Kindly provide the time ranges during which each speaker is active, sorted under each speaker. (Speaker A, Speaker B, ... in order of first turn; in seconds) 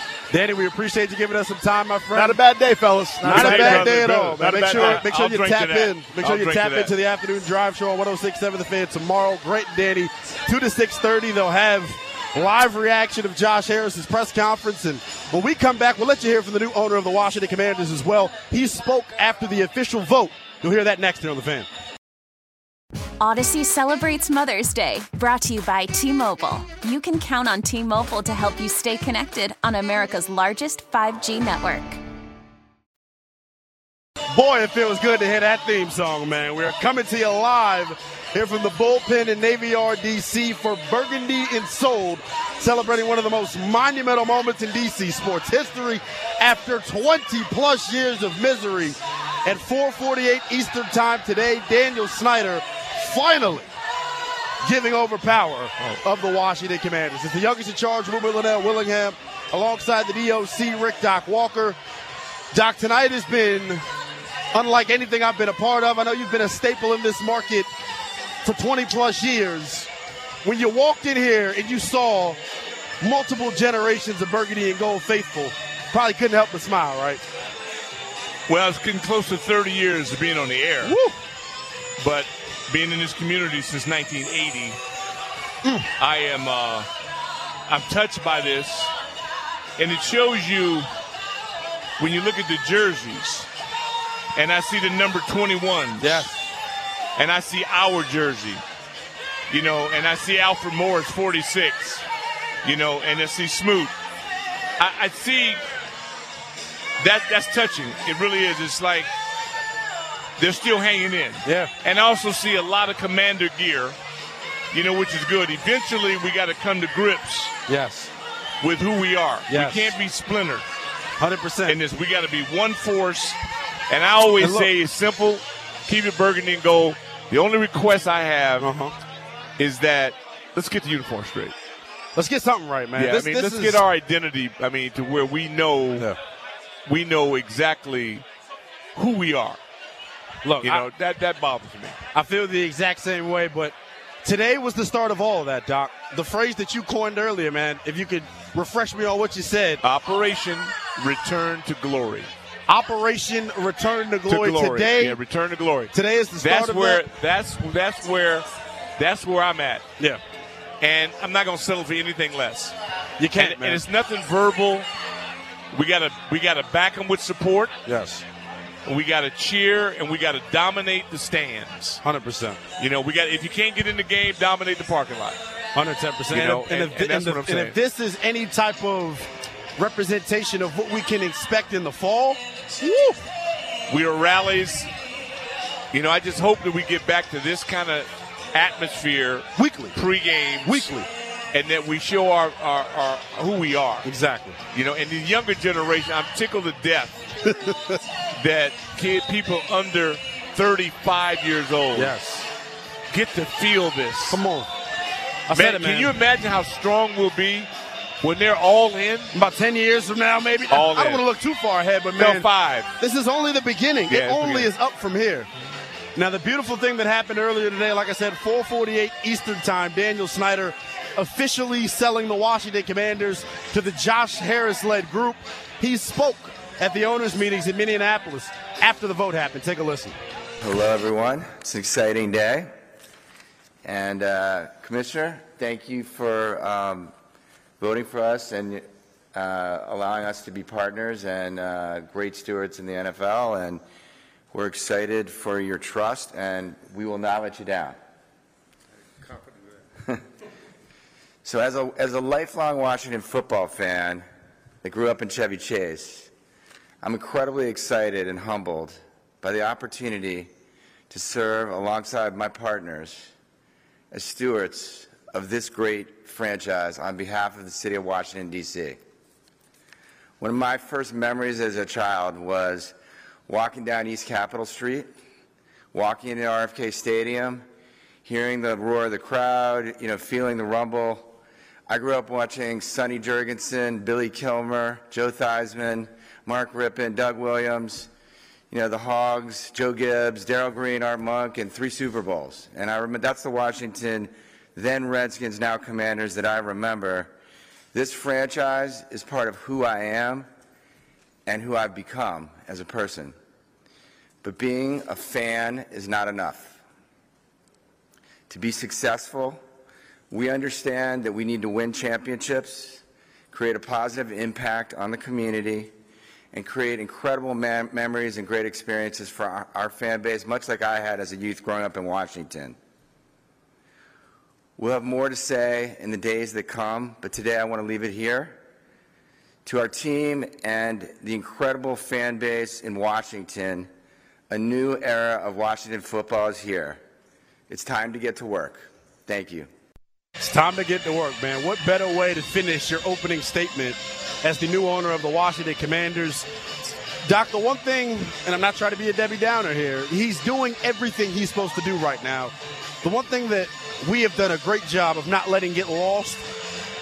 Speaker A: 0.3-2.4, 3.2-21.7, 34.3-53.7, 54.6-61.8, 62.5-63.8, 64.5-67.7, 68.4-69.9, 70.4-72.4, 73.0-77.2, 80.8-81.2, 96.0-96.4, 111.5-111.7, 117.7-118.1, 119.5-120.0, 121.2-121.8, 124.4-124.7, 128.6-128.9, 132.2-133.8, 140.4-140.9, 142.1-149.8, 152.7-155.2, 155.9-157.0, 163.2-163.8, 167.9-168.2, 172.0-172.6, 175.8-183.2, 189.6-190.0, 190.6-191.1, 194.1-194.6, 197.4-198.0, 201.9-202.5, 204.3-204.7, 205.5-206.2, 209.3-215.5, 216.2-230.2, 340.4-346.5, 347.2-356.4
Speaker B: 2.1-5.0
Speaker C: 3.2-6.9, 78.5-81.0, 82.0-84.8, 86.0-86.9, 87.7-88.9, 89.8-90.9, 92.0-93.5, 94.4-96.3, 97.2-98.6, 99.5-102.0, 102.6-103.9, 104.8-105.6, 107.0-109.1, 110.4-114.0, 114.7-117.6, 118.6-120.7, 121.7-128.7, 129.6-131.5, 133.0-136.1, 136.9-138.2, 138.9-139.6, 140.6-142.0, 149.8-152.3, 154.3-159.9, 160.8-162.8, 163.3-164.9, 165.7-167.7, 168.8-172.0, 172.8-175.4, 176.3-177.8, 183.9-184.9, 185.9-190.9, 191.5-194.1, 194.7-197.3, 198.4-202.2, 203.1-204.4, 205.5-207.7, 208.2-209.3, 210.7-211.3, 212.2-212.9, 214.1-214.7
Speaker D: 23.2-32.0
Speaker E: 230.6-232.7, 233.8-237.1, 237.8-243.8, 244.5-248.0, 251.4-254.2, 254.8-256.3, 257.0-260.5, 261.1-263.3, 264.1-269.0, 270.4-272.9, 273.5-275.1, 275.9-277.6, 278.2-281.3, 281.9-288.1, 288.7-297.3, 297.9-300.5, 301.5-303.4, 304.4-306.8, 308.5-309.6, 310.3-315.9, 316.5-322.8, 324.8-328.6, 329.6-333.9, 334.5-337.0, 337.7-339.7